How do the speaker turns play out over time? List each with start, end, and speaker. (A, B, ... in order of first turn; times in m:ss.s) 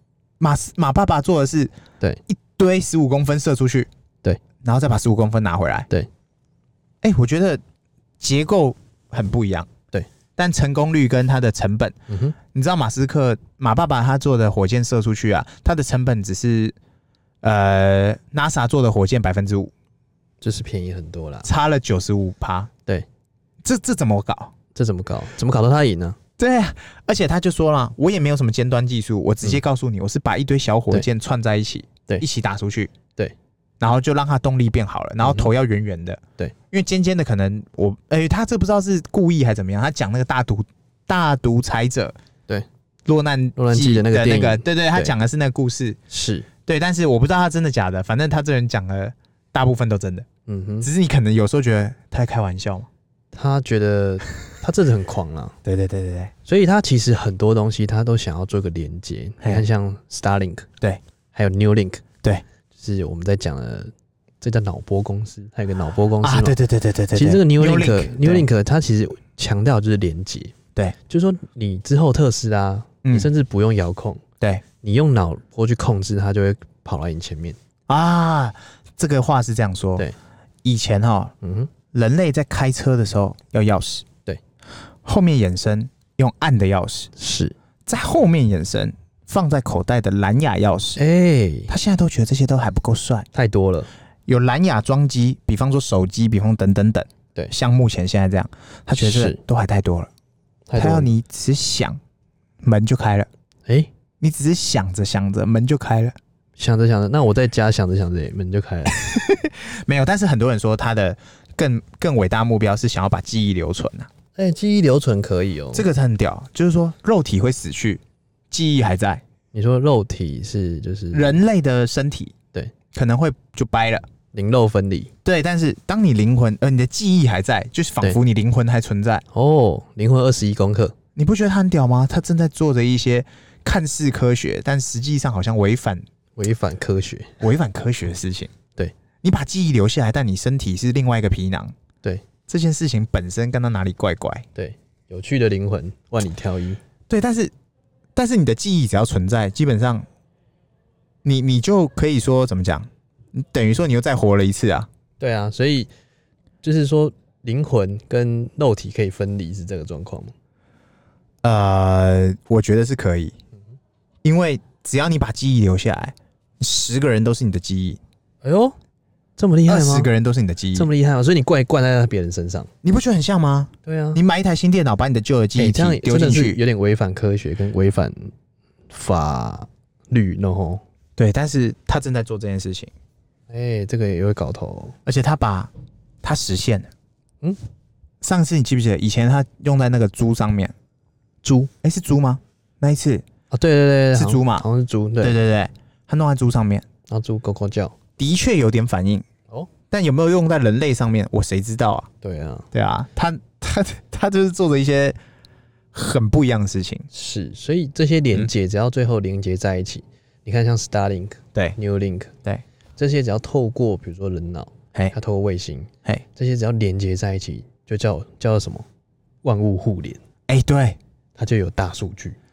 0:00.4-0:01.7 A
0:02.3-0:03.9 A
0:04.6-0:05.9 A
0:07.0-0:07.6 A
0:08.2-0:09.7 A
0:10.4-0:16.8 A
0:12.1-0:12.4 B
0:17.4-0:19.7 A
0:20.4-0:21.5 B
0:21.4-0:22.7 A
0:23.6-0:24.5 A
0:24.7-0:26.2 B
0:26.4-0:32.9 A
0:33.8-0:42.1 A
0:35.2-0:35.5 B
0:43.0-0:46.0 A
0:43.6-0:45.1 B
0:46.1-0:46.5 B
0:46.6-0:50.3 A
0:50.5-0:50.9 B
0:50.8-0:52.9 A
0:53.3-0:55.5 B
0:55.6-0:56.3 A
0:56.4-1:00.7 B
1:01.3-1:02.0 B
1:02.7-1:06.6 B
1:06.2-1:08.5 A
1:07.1-1:10.5 B
1:11.1-1:14.2 B
1:13.0-1:13.3 A
1:14.8-1:17.6 B
1:17.9-1:20.1 A
1:20.6-1:21.3 A
1:21.4-1:21.7 B
1:21.9-1:24.1 A
1:25.0-1:27.1 A
1:27.2-1:27.5 B
1:27.8-1:31.0 A
1:31.0-1:31.7 B
1:31.7-1:33.3 A
1:33.3-1:33.9 B
1:34.3-1:40.1 A
1:39.0-1:39.4 B
1:40.7-1:41.1 B
1:40.8-1:42.0 A
1:42.6-1:43.3 A
1:44.2-1:46.2 A
1:46.6-1:49.0 B
1:48.9-1:54.1 A
1:54.4-1:55.8 B
1:55.7-1:59.2 A
1:59.5-2:01.4 B
2:01.1-2:02.3 A
2:02.9-2:04.1 A
2:04.3-2:05.1 B
2:05.2-2:09.2 A
2:09.3-2:10.9 B
2:11.2-2:16.0 A
2:16.4-2:17.4 B
2:17.4-2:18.5 A
2:19.2-2:21.7 A
2:22.5-2:24.4 A
2:24.5-2:26.8 B
2:27.1-2:27.5 A
2:28.2-2:30.0 A
2:31.2-2:34.9 A
2:35.2-2:35.9 B
2:36.6-2:40.3 B
2:41.4-2:43.3 A
2:44.2-2:48.0 A
2:48.4-2:48.8 B
2:49.4-2:50.1 B
2:49.7-2:50.9 A
2:50.7-2:52.7 B
2:52.8-2:56.6 A
2:53.8-2:54.2 B
2:55.6-2:58.3 B
2:58.9-3:00.8 B
3:01.2-3:02.9 A
3:03.5-3:05.0 B
3:05.0-3:05.7 A
3:06.2-3:06.9 A
3:08.2-3:10.7 A
3:11.4-3:11.7 B
3:11.8-3:13.2 A
3:13.5-3:15.4 B
3:14.1-3:14.6 A
3:15.2-3:16.9 A
3:17.1-3:17.9 B
3:18.2-3:19.3 A
3:19.9-3:22.1 A
3:22.2-3:22.7 B
3:22.7-3:25.2 A
3:25.9-3:27.1 A
3:27.1-3:32.3 B
3:33.0-3:38.8 B
3:39.4-3:40.2 B
3:40.5-3:41.0 A
3:41.4-3:42.4 B